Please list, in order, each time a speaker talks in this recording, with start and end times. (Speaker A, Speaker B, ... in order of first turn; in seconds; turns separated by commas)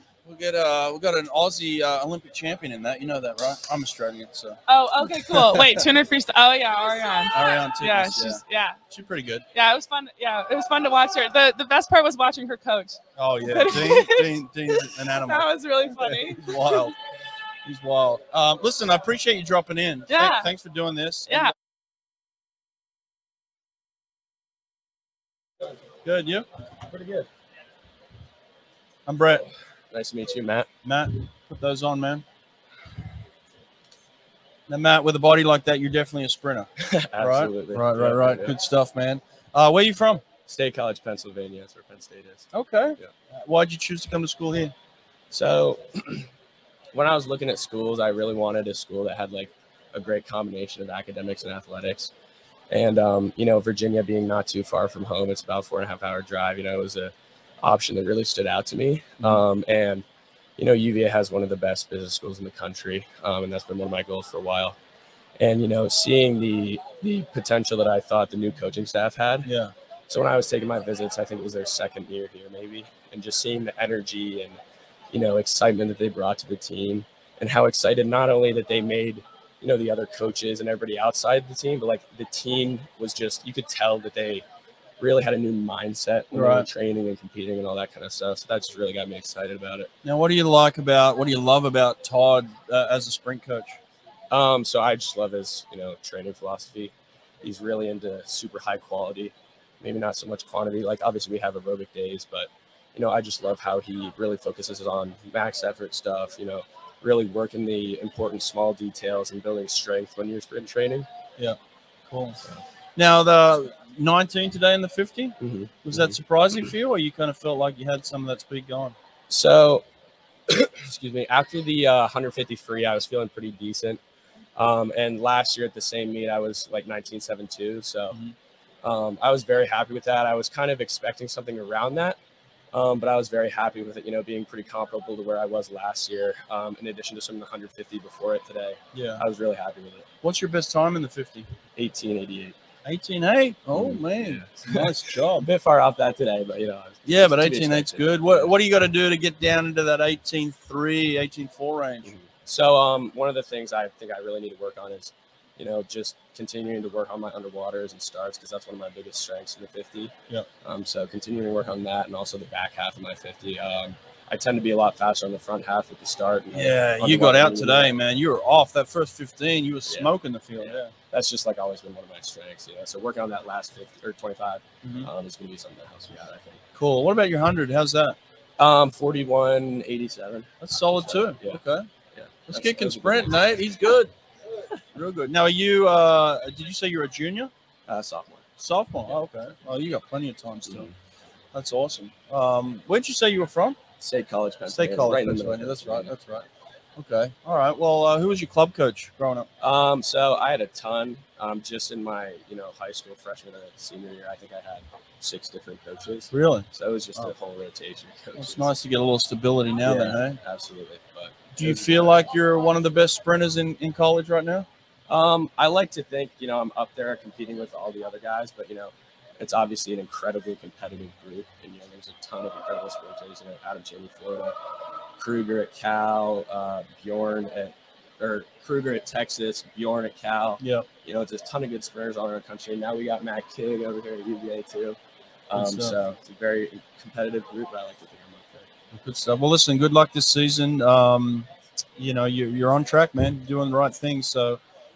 Speaker A: 0.2-5.9, Speaker B: 4.7-8.8, Speaker A: 7.3-9.4, Speaker B: 9.5-16.9, Speaker A: 13.2-16.9, Speaker A: 17.6-21.5, Speaker B: 20.1-20.5, Speaker B: 21.3-21.5, Speaker A: 26.0-26.5, Speaker A: 29.1-29.5, Speaker C: 29.9-30.7, Speaker A: 30.8-32.2, Speaker A: 34.7-40.2, Speaker C: 36.8-38.6, Speaker C: 40.5-43.1, Speaker A: 42.5-44.7, Speaker C: 45.3-46.3, Speaker C: 46.9-52.1, Speaker C: 52.7-60.0, Speaker C: 60.6-64.8, Speaker C: 65.4-69.5, Speaker A: 69.4-69.7, Speaker C: 70.1-74.6, Speaker C: 75.1-84.5, Speaker C: 85.0-89.9, Speaker A: 86.3-86.7, Speaker A: 90.0-93.8, Speaker C: 94.3-111.1, Speaker A: 112.1-112.4, Speaker A: 113.0-119.0, Speaker C: 115.4-116.2, Speaker C: 119.3-119.8, Speaker C: 120.5-124.0, Speaker C: 124.6-128.2, Speaker C: 128.8-132.2, Speaker C: 132.7-140.1, Speaker A: 138.9-139.2, Speaker A: 140.2-141.5, Speaker C: 141.8-142.6, Speaker A: 142.8-145.5, Speaker C: 143.7-148.6, Speaker A: 147.1-152.1, Speaker C: 152.1-160.1, Speaker C: 160.6-168.0, Speaker A: 166.5-170.9, Speaker C: 169.9-176.6, Speaker A: 174.8-175.1, Speaker A: 176.8-178.2, Speaker C: 178.6-181.6, Speaker A: 180.6-181.9, Speaker C: 182.1-183.5, Speaker A: 182.5-184.1, Speaker A: 184.9-187.5, Speaker C: 187.9-188.5, Speaker A: 188.6-190.9, Speaker C: 190.7-190.9, Speaker A: 191.5-193.8, Speaker C: 194.0-196.1, Speaker A: 194.7-196.5, Speaker A: 197.0-199.5, Speaker C: 199.6-208.7, Speaker A: 206.3-207.3, Speaker A: 208.4-210.4, Speaker C: 209.8-212.3, Speaker A: 211.6-214.7, Speaker C: 215.1-224.6, Speaker C: 225.2-235.0, Speaker A: 230.6-230.9, Speaker C: 235.5-238.7, Speaker A: 235.6-236.0, Speaker A: 238.9-244.6